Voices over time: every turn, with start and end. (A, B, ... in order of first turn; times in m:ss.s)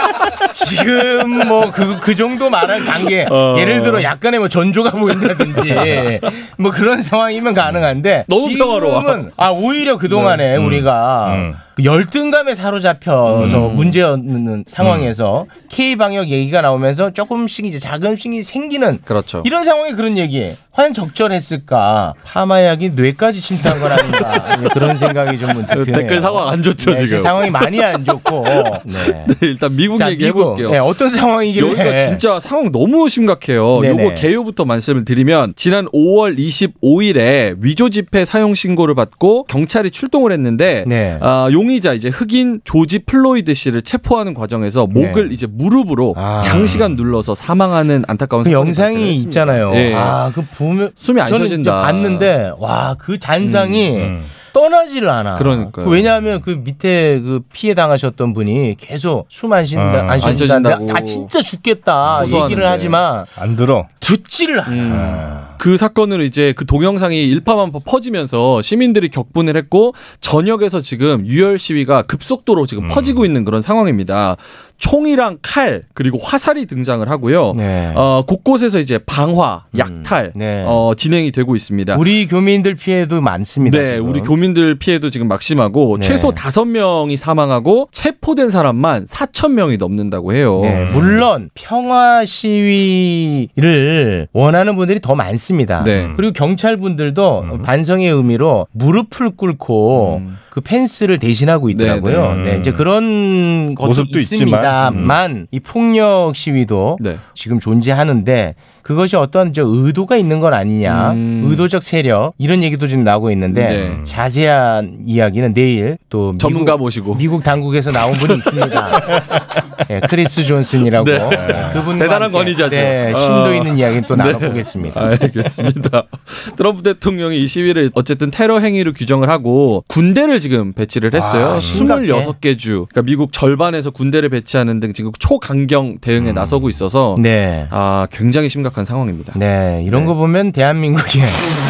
0:00.5-0:29.4 A
0:03.2-0:04.1 B
0:08.3-0:09.3 B
0:10.1-0:10.4 B
0:10.5-0:11.6 C
0:13.3-0:14.0 B
0:19.1-0:19.5 B
0:23.7-0:30.8 B
0:30.0-0:32.2 A
0:31.6-0:50.2 B
0:33.8-0:34.3 A
0:40.8-0:41.2 A
0:44.9-0:45.3 A
0:46.2-0:46.8 A
0:46.4-0:47.0 C
0:48.4-1:03.3 A
0:51.0-0:52.3 B
0:53.4-0:53.9 B
0:54.0-0:54.3 C
0:55.4-0:56.1 B
0:59.8-1:00.5 C
1:00.2-1:01.3 B
1:02.0-1:02.7 C
1:02.2-1:03.0 B
1:03.4-1:03.9 C
1:04.0-1:05.5 A
1:04.7-1:22.0 B
1:04.9-1:05.2 C
1:12.8-1:13.3 C
1:17.5-1:18.0 A
1:19.8-1:20.8 A
1:21.9-1:24.3 A
1:23.6-1:30.9 B
1:26.0-1:26.4 A
1:30.6-1:59.2 A
1:30.7-1:31.3 C
1:35.8-1:36.1 B
1:35.9-1:36.2 C
1:37.4-1:37.7 C
1:39.9-1:40.4 B
1:41.7-1:42.4 B
1:42.2-1:42.9 C
1:43.8-1:45.2 C
1:44.9-1:45.1 B
1:50.9-1:51.7 B
1:53.5-1:54.0 B
1:53.8-1:54.2 C
1:56.4-1:57.2 B
1:58.0-1:59.2 B
1:59.9-2:05.1 A
2:01.0-2:19.4 B
2:01.3-2:01.8 C
2:11.1-2:12.3 A
2:11.6-2:11.9 C
2:16.2-2:16.7 C
2:17.2-2:17.7 A
2:19.4-2:21.5 A